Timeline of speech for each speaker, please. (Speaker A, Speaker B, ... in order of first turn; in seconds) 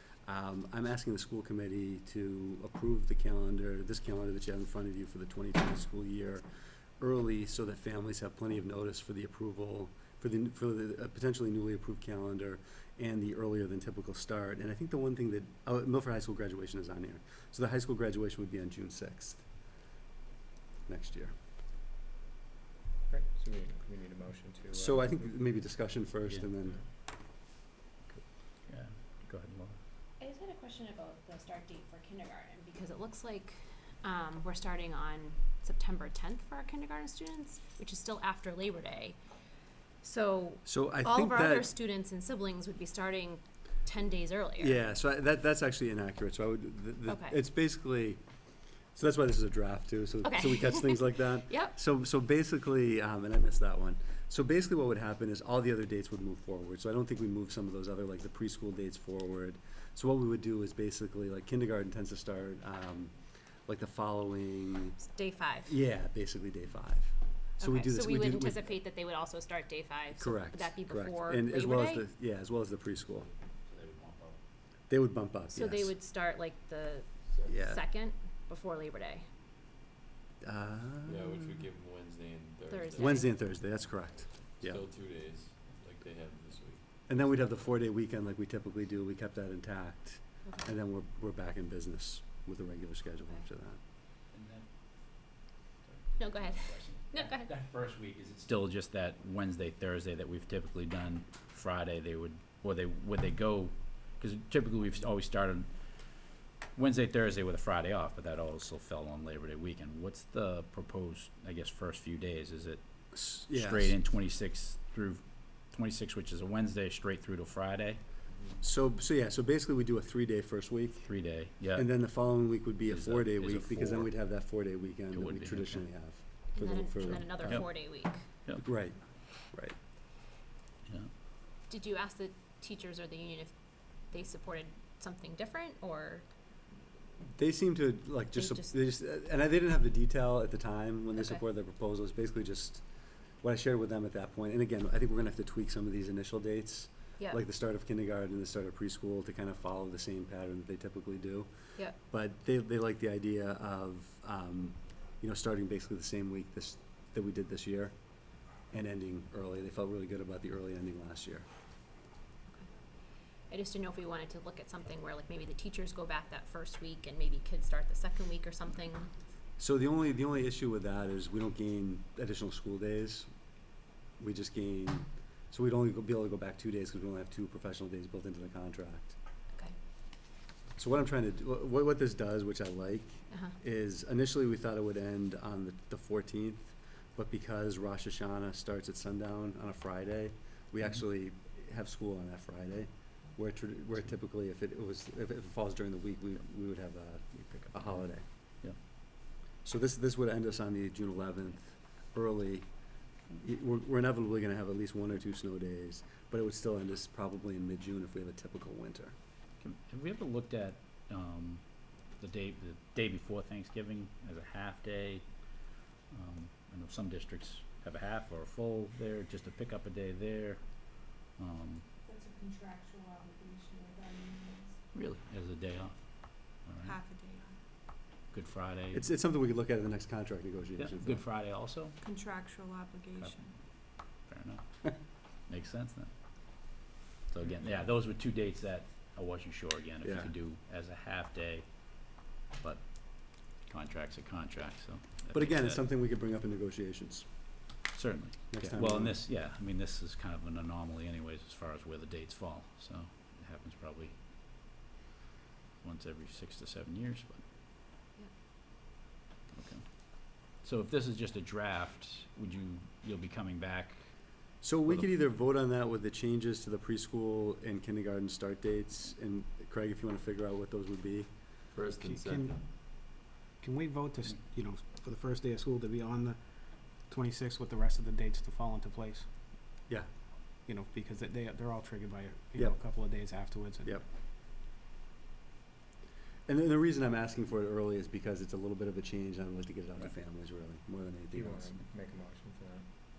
Speaker A: 0.3-6.4, 7.0-19.5, 20.9-21.3, 24.7-26.8, 40.6-41.7, 44.6-48.2, 49.0-63.1, 63.7-65.0, 65.7-68.7, 70.2-73.3, 74.9-75.9, 77.4-77.8, 80.4-81.4, 83.0-84.8, 87.1-93.8, 113.1-114.0, 118.6-121.1, 121.7-127.8, 128.6-129.8, 137.4-142.8, 143.4-157.9, 158.7-161.4, 169.6-173.3, 174.2-179.2, 180.8-198.2, 199.6-202.7, 203.4-209.1, 228.9-231.2, 240.0-240.3, 245.3-247.2, 248.5-249.2, 264.6-271.3, 286.5-291.7
Speaker B: 23.1-25.1, 291.3-292.9
Speaker C: 28.7-29.8, 73.7-74.4, 94.3-94.7, 95.8-106.2, 106.7-118.0, 121.0-124.1, 125.1-126.1, 127.0-128.7, 209.6-215.2, 216.1-221.8, 224.9-227.0, 228.3-229.1, 230.8-231.9, 233.2-245.8, 247.9-254.1, 255.8-257.4, 259.5-264.0
Speaker D: 30.2-39.2, 40.0-44.8, 47.1-47.4, 50.2-51.8, 65.0-65.7, 67.6-72.1, 75.5-79.2, 82.7-83.5, 96.2-97.5, 126.5-128.2, 131.7-133.5, 134.1-136.2, 138.3-138.7, 163.5-169.1, 183.3-183.5
Speaker E: 81.0-83.2, 84.3-87.1, 271.7-272.6
Speaker F: 222.0-224.8, 226.8-227.6, 232.0-233.6
Speaker G: 271.9-279.3, 280.6-284.0